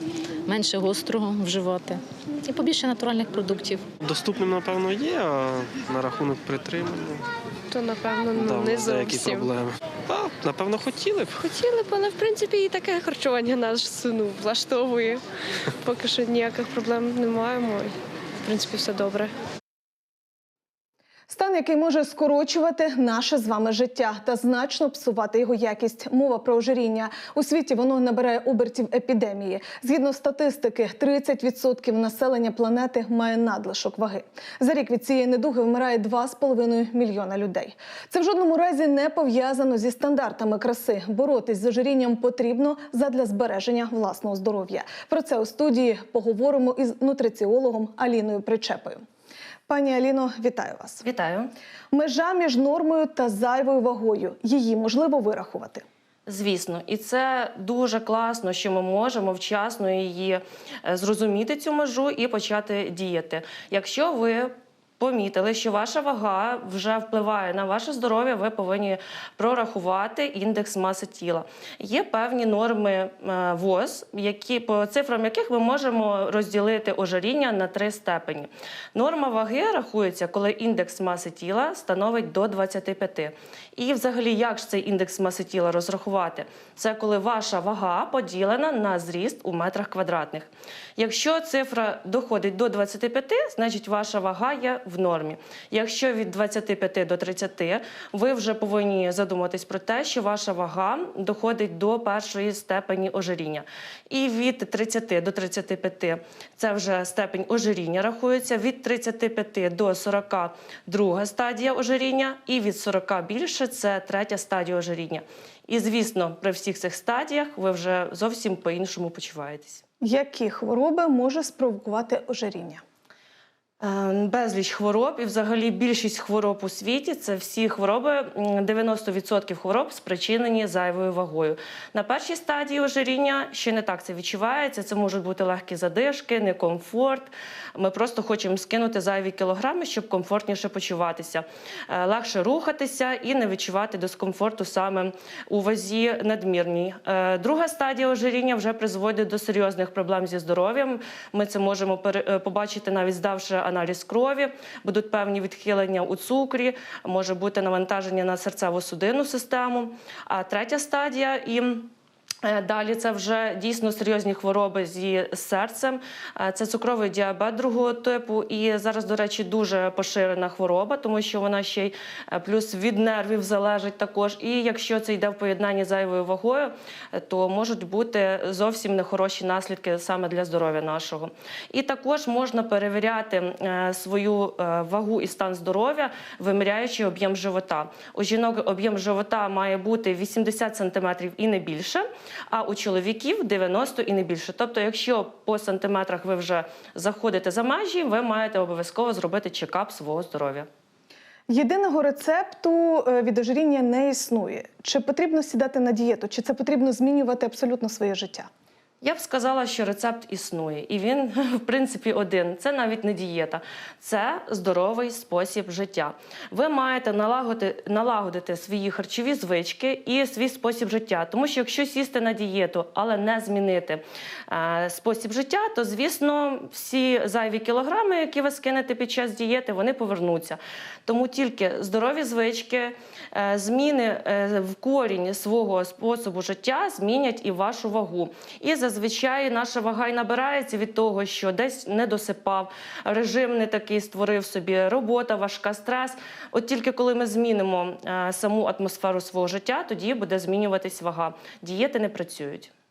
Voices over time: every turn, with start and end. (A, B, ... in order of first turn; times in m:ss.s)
0:00.5-0:03.8 A
0:04.0-0:07.1 B
0:07.7-0:09.5 C
0:08.3-0:11.4 B
0:11.4-0:15.2 C
0:15.8-0:19.3 C
0:21.3-0:49.0 D
0:49.7-0:51.0 D
0:51.0-0:51.5 E
0:51.9-0:55.8 D
0:56.3-1:59.8 E
2:00.0-2:02.8 D
2:03.8-2:41.9 E
2:42.4-3:20.7 E
3:21.5-3:28.5 D
3:29.0-4:12.7 E